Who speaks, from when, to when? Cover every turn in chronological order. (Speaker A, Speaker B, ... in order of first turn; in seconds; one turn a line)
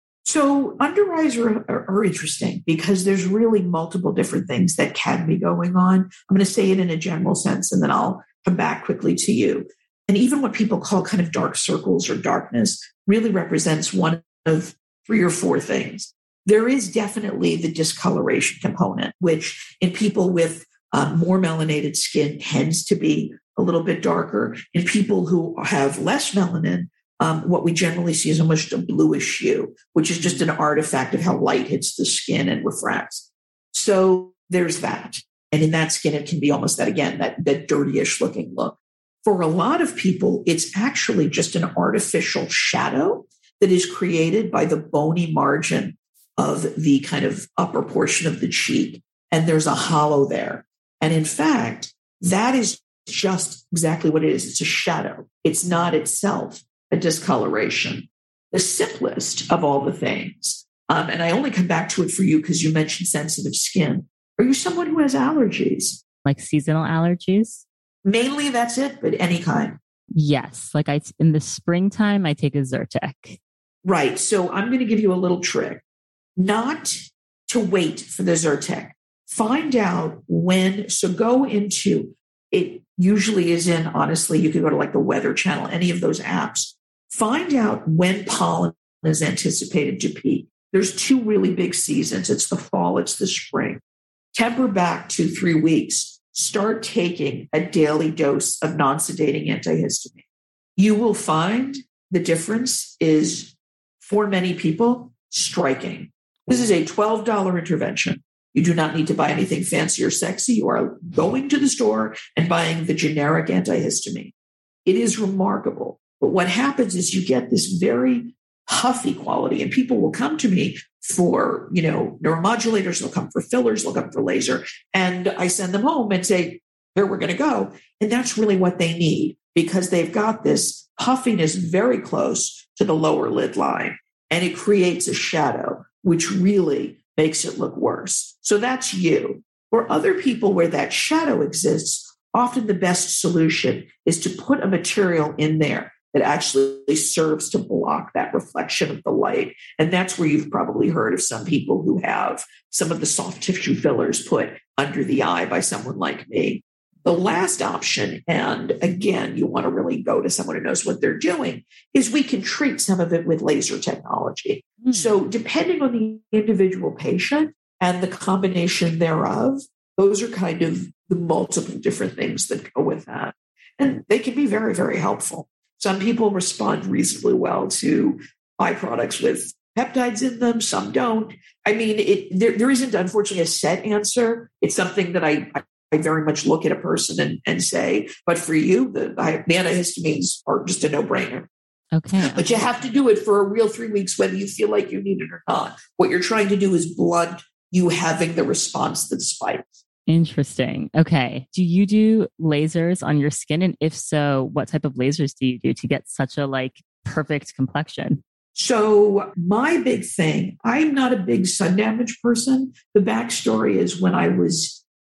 Speaker A: 0.2-66.0
Speaker B: 66.2-67.6
Speaker A: 68.0-69.8
Speaker B: 70.1-73.4
Speaker A: 73.8-75.8
Speaker A: 76.4-93.8
Speaker A: 94.3-100.2
Speaker A: 100.8-114.3
Speaker A: 114.8-191.5
Speaker B: 164.8-165.1
Speaker B: 191.9-192.7
Speaker A: 192.2-199.7
Speaker B: 200.1-208.2
Speaker A: 208.5-214.8